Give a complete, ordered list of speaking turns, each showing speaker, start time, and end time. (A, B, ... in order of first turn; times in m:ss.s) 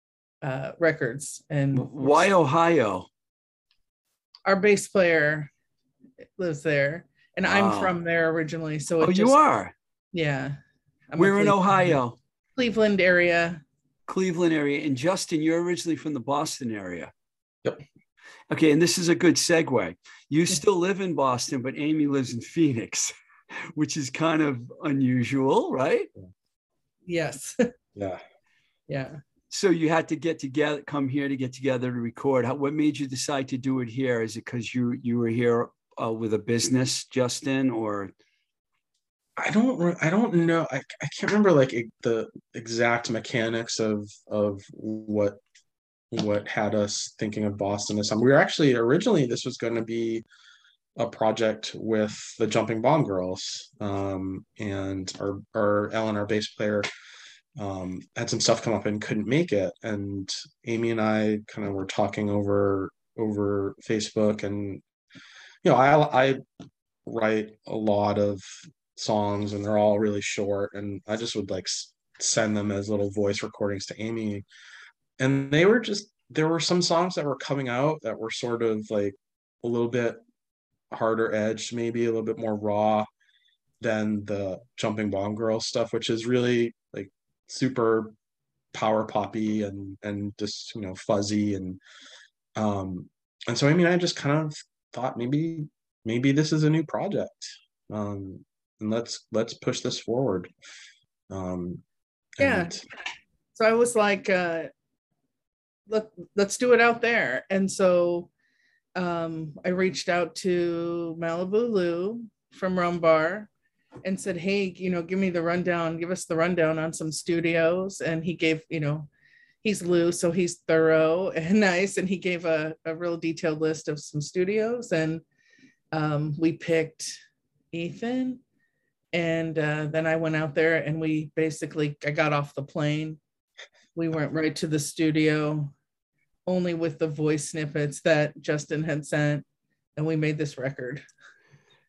0:00.4-0:02.3 A
0:01.7-0:03.1 B
0:04.4-0:05.5 A
0:06.4-0:09.4 A
0:07.4-0:08.0 B
0:09.0-0:09.7 B
0:10.1-0:10.6 A
0:11.1-0:12.0 A
0:11.2-0:12.2 B
0:12.6-0:13.6 A
0:14.1-0:17.1 B
0:18.5-0:23.1 B
0:23.8-0:26.1 B
0:27.1-0:27.7 A
0:28.0-0:28.2 C
0:28.9-0:29.2 A
0:29.5-0:38.1 B
0:39.4-0:45.4 C
0:46.1-0:50.2 C
0:51.0-0:56.9 C
0:57.6-1:04.8 C
1:05.6-1:06.4 C
1:07.1-1:14.4 C
1:15.2-1:20.2 C
1:20.9-1:23.1 C
1:23.8-1:28.1 C
1:28.7-1:31.8 C
1:32.6-1:40.5 C
1:41.3-1:41.8 C
1:42.4-1:42.8 C
1:42.4-1:42.7 A
1:43.6-1:44.7 A
1:45.9-1:48.3 A
1:49.0-1:53.5 A
1:54.0-1:59.1 A
1:59.6-2:05.2 A
2:05.9-2:07.2 A
2:07.7-2:08.4 A
2:09.1-2:13.2 A
2:14.0-2:15.7 A
2:16.5-2:19.4 A
2:20.0-2:21.0 A